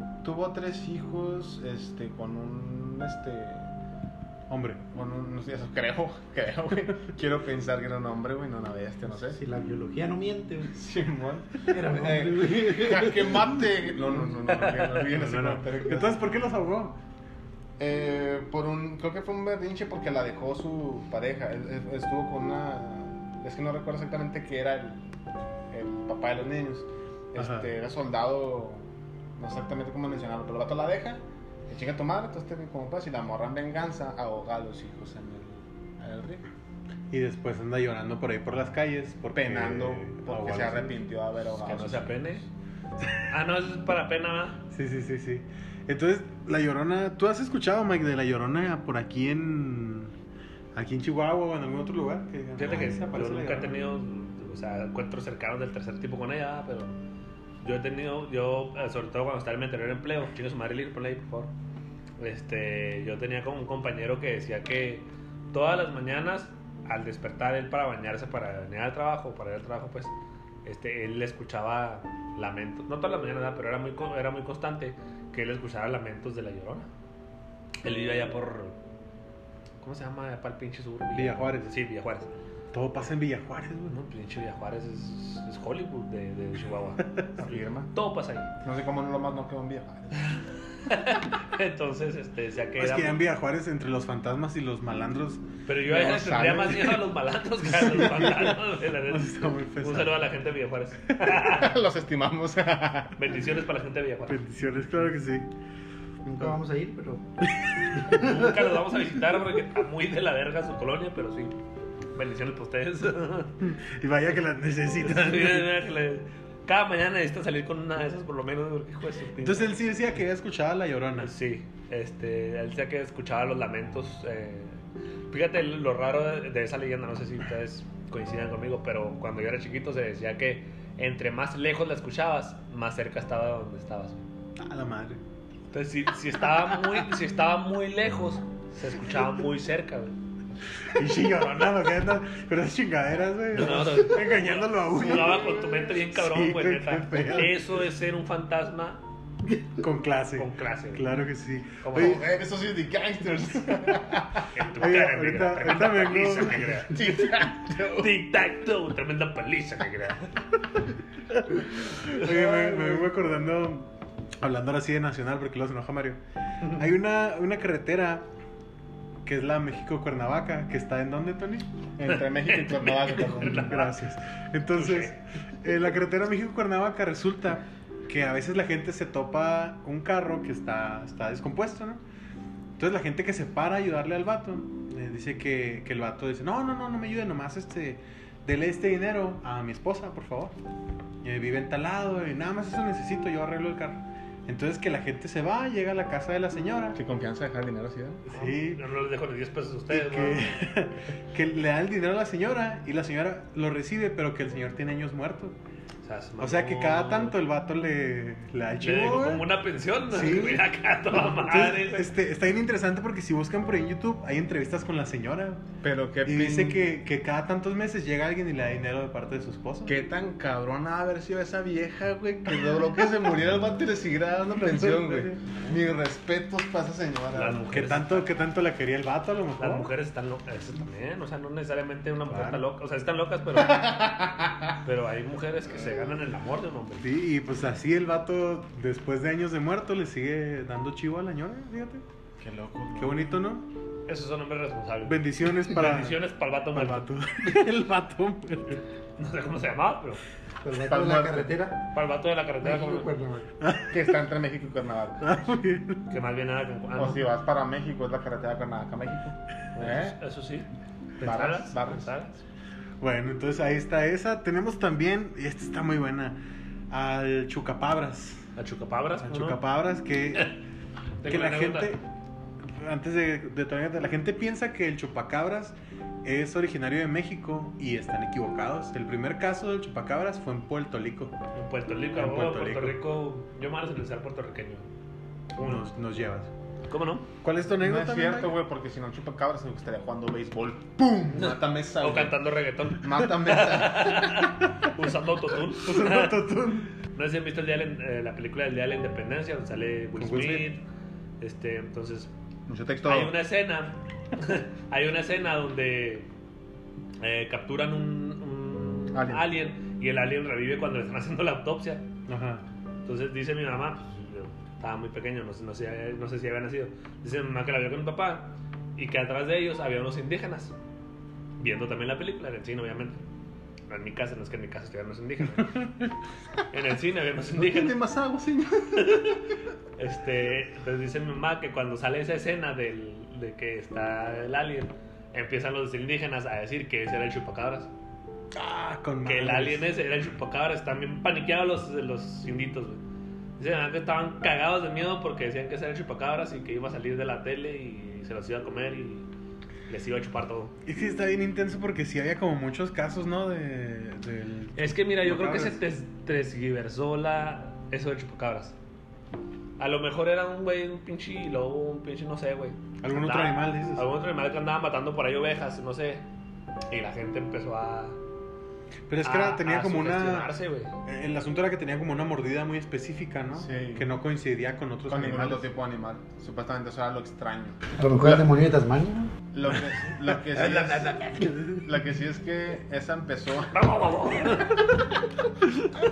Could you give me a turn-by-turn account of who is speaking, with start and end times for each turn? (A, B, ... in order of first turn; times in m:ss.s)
0:00.2-0:03.7 A
0:04.5-0:04.8 B
0:04.9-0:09.4 A
0:09.2-0:10.7 C
0:10.7-0:16.2 A
0:11.7-0:13.4 C
0:14.6-0:17.0 B
0:17.8-0:25.1 A
0:25.7-0:36.4 A
0:27.4-0:27.7 B
0:37.1-0:41.0 B
0:39.3-0:42.3 A
0:41.6-0:42.4 D
0:43.3-0:44.6 D
0:44.7-0:50.1 B
0:50.7-0:53.8 B
0:52.6-0:57.0 D
0:57.6-1:01.5 D
1:02.2-1:10.1 D
1:10.6-1:16.9 D
1:17.8-1:18.8 D
1:19.8-1:22.3 D
1:21.1-1:21.8 B
1:22.7-1:24.0 B
1:23.9-1:28.5 D
1:27.4-1:27.9 A
1:28.6-1:30.4 A
1:30.2-1:33.2 D
1:32.8-1:35.4 B
1:35.7-1:41.7 D
1:35.9-1:37.0 A
1:37.7-1:40.2 B
1:41.1-1:41.4 B
1:41.4-1:43.2 A
1:43.2-1:44.4 D
1:44.3-1:45.5 B
1:46.2-1:47.2 C
1:47.4-1:48.2 B
1:48.1-1:48.4 C
1:48.1-1:51.6 D
1:52.2-1:53.6 D
1:53.6-1:55.7 B
1:55.0-1:59.8 D
1:59.4-2:01.4 B
2:01.2-2:14.2 D
2:14.6-2:15.2 B
2:15.7-2:20.2 D
2:16.6-2:17.0 B
2:20.9-2:27.6 B
2:23.5-2:29.0 D
2:29.8-2:32.3 B
2:30.4-2:31.1 D
2:31.8-2:32.2 D
2:32.0-2:34.5 A
2:34.5-2:37.3 D
2:34.8-2:36.9 B
2:36.9-2:38.1 A
2:37.8-2:40.4 D
2:42.0-2:46.2 B
2:42.1-2:42.6 D
2:46.8-2:48.3 B
2:49.2-2:51.9 B
2:52.0-2:53.8 A
2:52.1-2:54.0 D
2:53.4-3:02.0 B
2:54.8-2:55.1 D
3:02.8-3:10.6 B
3:11.2-3:17.0 B
3:17.0-3:18.2 A
3:18.3-3:18.8 B
3:18.3-3:20.5 D
3:19.9-3:25.6 B
3:26.0-3:27.4 D
3:26.4-3:29.5 B
3:28.8-3:32.1 D
3:30.1-3:35.6 B
3:35.8-3:36.8 A
3:36.2-3:40.0 B
3:39.9-3:47.6 A
3:44.5-3:45.5 B
3:47.3-3:48.3 D
3:47.7-3:49.9 B
3:49.6-3:54.2 D
3:52.3-3:52.6 B
3:53.8-3:54.5 A
3:54.8-3:57.1 D
3:57.0-4:02.0 B
4:02.4-4:03.2 A
4:03.0-4:03.7 B
4:04.1-4:07.1 D
4:05.0-4:06.2 B
4:06.7-4:08.8 B
4:09.2-4:10.2 D
4:10.6-4:11.9 C
4:10.8-4:11.6 A
4:11.9-4:13.1 D
4:12.6-4:13.5 C
4:13.6-4:14.2 B
4:13.9-4:15.3 A
4:15.2-4:16.0 B
4:16.1-4:17.2 D
4:17.0-4:20.2 A
4:19.8-4:22.4 D
4:21.2-4:22.1 A
4:23.0-4:28.5 B
4:28.6-4:29.6 D
4:29.2-4:30.6 B
4:31.2-4:32.0 D
4:31.2-4:32.0 B
4:32.6-4:41.4 B
4:41.6-4:44.9 D
4:42.1-4:43.0 B
4:45.6-4:45.9 D
4:45.6-4:46.5 B
4:46.9-4:47.3 D
4:47.4-4:48.6 B
4:47.8-4:52.4 A
4:51.3-4:56.4 D
4:53.0-4:54.5 A
4:55.8-4:57.0 B
4:57.1-5:00.8 D
5:00.2-5:00.7 B
5:01.4-5:02.3 D
5:02.7-5:03.4 A
5:03.1-5:06.3 D
5:07.2-5:12.1 D
5:09.1-5:09.5 A
5:12.3-5:12.6 B
5:13.0-5:20.8 D
5:21.6-5:23.2 D
5:23.9-5:25.8 D
5:25.6-5:26.1 B
5:26.7-5:28.0 D
5:27.6-5:29.4 A
5:29.0-5:29.4 D
5:30.0-5:37.9 D
5:38.6-5:39.9 B
5:39.2-5:43.0 D
5:43.6-5:49.3 D
5:49.9-5:50.8 D
5:50.9-5:55.8 B
5:54.8-5:58.8 D
5:59.8-6:06.3 D
6:03.0-6:04.1 B
6:06.9-6:08.2 D
6:09.1-6:10.5 B
6:09.2-6:10.9 D
6:11.0-6:15.7 B
6:13.6-6:14.1 A
6:15.1-6:18.5 A
6:18.0-6:19.3 C
6:19.5-6:24.7 A
6:23.7-6:24.8 D